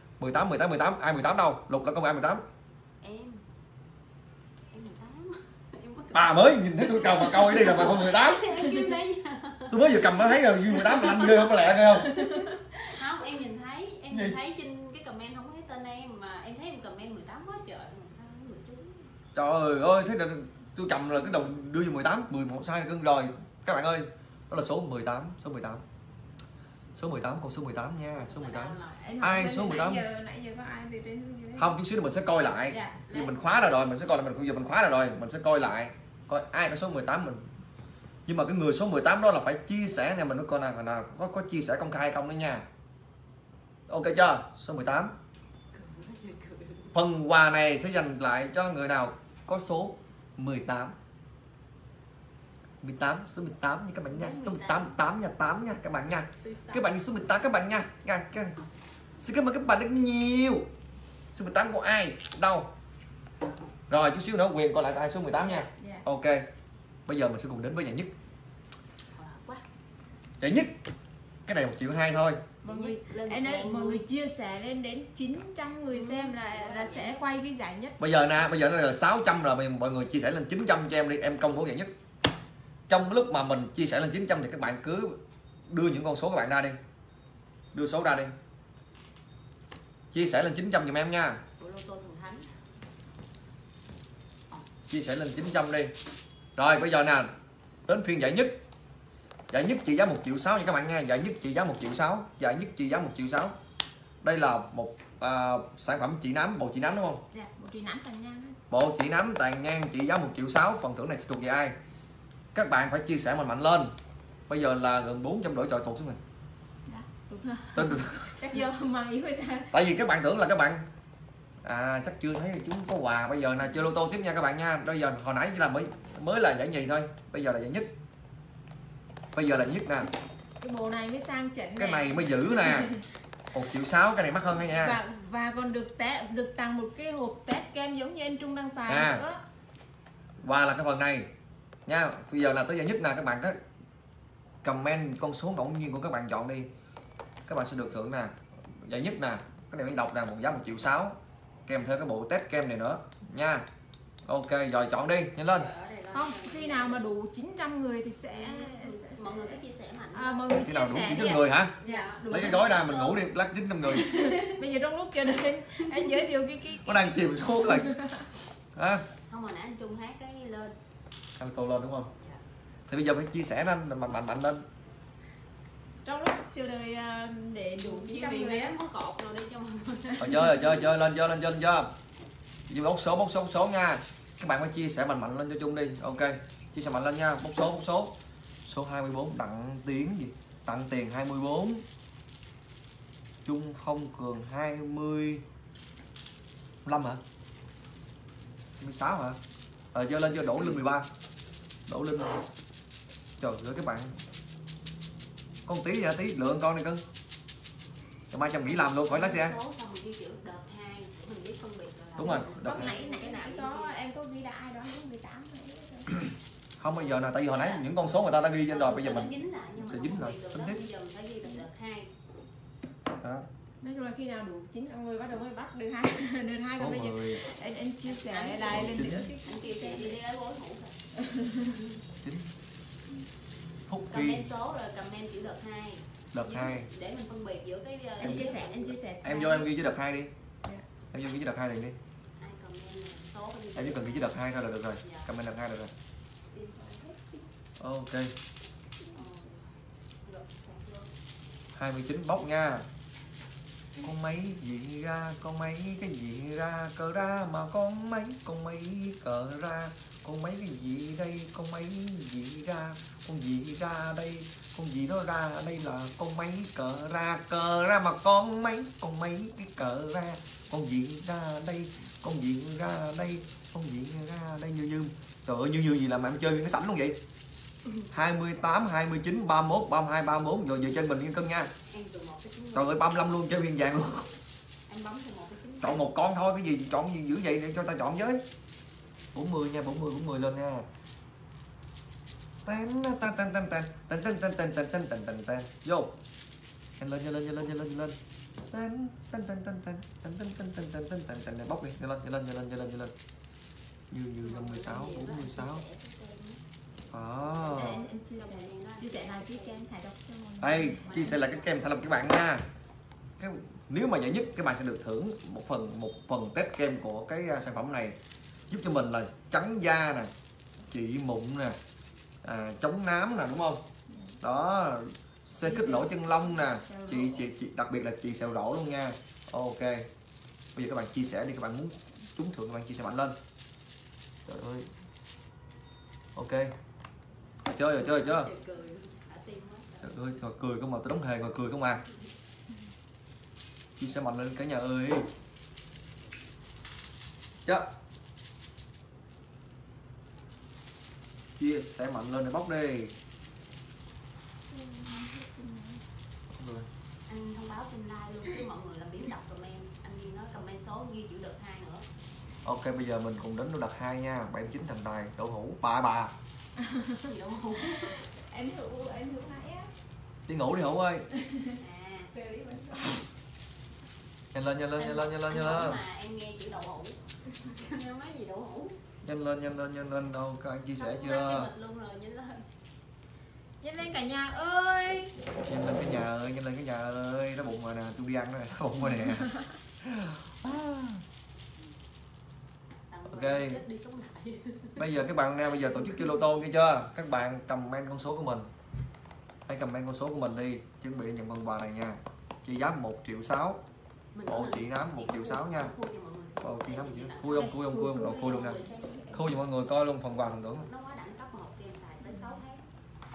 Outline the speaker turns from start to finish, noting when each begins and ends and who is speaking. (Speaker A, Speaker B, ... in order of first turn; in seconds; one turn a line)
Speaker A: 0.2-2.4
Speaker B: 3.0-3.4
Speaker B: 4.7-19.1
Speaker A: 6.1-8.5
Speaker A: 9.7-12.3
Speaker C: 12.1-12.5
Speaker A: 19.3-25.8
Speaker A: 26.9-30.0
Speaker B: 28.1-29.3
Speaker C: 29.0-31.8
Speaker A: 31.6-37.5
Speaker C: 32.7-33.0
Speaker B: 33.0-33.9
Speaker A: 38.3-42.7
Speaker A: 43.9-45.1
Speaker B: 45.7-47.0
Speaker A: 46.9-50.9
Speaker A: 52.8-58.6
Speaker B: 54.1-55.0
Speaker B: 56.4-56.9
Speaker A: 59.2-60.7
Speaker A: 61.3-62.7
Speaker A: 63.9-66.5
Speaker C: 65.6-66.0
Speaker A: 67.0-68.1
Speaker B: 69.1-69.6
Speaker A: 70.4-70.7
Speaker A: 71.5-72.4
Speaker B: 72.6-74.0
Speaker C: 72.6-78.0
Speaker B: 75.9-77.2
Speaker A: 78.0-81.9
Speaker A: 82.9-86.8
Speaker A: 87.7-88.3
Speaker A: 90.1-91.4
Speaker B: 91.6-92.5
Speaker A: 94.9-95.9
Speaker A: 96.5-97.3
Speaker A: 97.8-98.6
Speaker A: 99.5-103.5
Speaker A: 104.2-107.2
Speaker C: 107.3-108.6
Speaker A: 108.7-111.8
Speaker A: 112.5-113.9
Speaker A: 114.5-116.2
Speaker C: 116.8-119.7
Speaker A: 117.7-118.3
Speaker A: 119.7-120.8
Speaker A: 121.6-127.9
Speaker A: 129.3-130.1
Speaker C: 130.6-133.0
Speaker A: 131.8-132.9
Speaker A: 133.5-135.0
Speaker C: 134.7-139.4
Speaker A: 138.9-139.2
Speaker A: 140.4-141.3
Speaker A: 141.8-143.6
Speaker A: 144.6-146.7
Speaker A: 147.4-153.7
Speaker A: 154.2-155.7
Speaker B: 155.5-157.0
Speaker C: 156.1-159.6
Speaker B: 158.2-160.6
Speaker C: 160.1-162.7
Speaker A: 160.6-164.1
Speaker B: 161.8-163.2
Speaker B: 163.9-164.6
Speaker C: 163.9-167.0
Speaker B: 165.8-166.1
Speaker A: 166.8-167.9
Speaker C: 167.6-168.3
Speaker A: 168.7-169.0
Speaker B: 169.3-170.7
Speaker A: 171.4-172.1
Speaker A: 172.9-174.6
Speaker C: 176.0-178.8
Speaker B: 177.8-180.7
Speaker A: 180.2-181.9
Speaker A: 182.7-191.8
Speaker A: 193.4-195.4
Speaker A: 196.8-197.2
Speaker A: 198.8-199.4
Speaker A: 199.9-201.1
Speaker A: 201.9-202.4
Speaker A: 203.4-204.1
Speaker A: 205.7-207.0
Speaker A: 208.3-209.5
Speaker B: 208.6-214.0
Speaker A: 212.2-212.9
Speaker C: 212.2-216.2
Speaker A: 216.8-220.8
Speaker B: 216.9-217.9
Speaker B: 218.7-222.1
Speaker A: 223.2-223.5
Speaker C: 223.8-230.2
Speaker A: 226.6-227.4
Speaker B: 228.0-232.0
Speaker A: 228.7-229.3
Speaker C: 231.2-231.8
Speaker A: 232.2-232.5
Speaker A: 233.9-234.5
Speaker B: 234.1-238.9
Speaker A: 236.3-236.9
Speaker C: 238.2-239.7
Speaker A: 238.2-238.5
Speaker A: 239.2-240.3
Speaker A: 241.1-242.0
Speaker B: 242.4-244.4
Speaker A: 243.7-245.9
Speaker B: 245.0-245.3
Speaker B: 246.5-247.4
Speaker A: 247.8-248.3
Speaker B: 249.1-251.1
Speaker A: 251.7-252.9
Speaker A: 254.0-277.2
Speaker A: 278.1-281.7
Speaker B: 281.9-283.3
Speaker A: 282.7-284.3
Speaker B: 284.9-286.1
Speaker A: 285.8-288.4
Speaker A: 289.3-290.9
Speaker A: 292.6-296.1
Speaker A: 297.0-298.2
Speaker A: 298.7-303.1
Speaker A: 304.1-305.8
Speaker B: 304.4-306.6
Speaker A: 307.1-308.0
Speaker B: 307.4-309.9
Speaker C: 307.7-311.4
Speaker A: 310.6-312.6
Speaker B: 311.0-312.0
Speaker A: 313.4-318.2
Speaker A: 318.7-320.3
Speaker A: 320.9-321.8
Speaker A: 322.4-323.8
Speaker C: 324.1-324.4
Speaker A: 324.4-330.1
Speaker C: 325.6-327.4
Speaker A: 330.7-333.4
Speaker A: 334.4-334.9
Speaker A: 336.3-336.7
Speaker A: 337.6-338.5
Speaker B: 337.9-340.2
Speaker A: 340.0-342.0
Speaker A: 344.0-345.3
Speaker A: 351.6-353.1
Speaker C: 354.7-356.0
Speaker A: 356.5-356.9
Speaker B: 357.3-362.1
Speaker A: 362.6-366.3
Speaker C: 366.8-367.2
Speaker B: 367.2-368.2
Speaker C: 367.9-369.9
Speaker A: 370.5-371.2
Speaker C: 371.3-371.8
Speaker B: 371.8-372.3
Speaker C: 372.3-373.2
Speaker A: 374.5-376.0
Speaker B: 375.0-379.0
Speaker A: 379.2-381.7
Speaker B: 380.9-382.7
Speaker C: 383.8-385.4
Speaker A: 385.7-391.2
Speaker C: 389.1-389.5
Speaker B: 393.1-395.2
Speaker A: 393.3-393.8
Speaker A: 395.0-398.7
Speaker A: 399.7-403.8
Speaker B: 404.3-409.4
Speaker A: 404.5-405.9
Speaker A: 406.6-408.8
Speaker C: 407.5-409.5
Speaker A: 409.3-410.9
Speaker B: 410.7-412.8
Speaker C: 412.2-412.6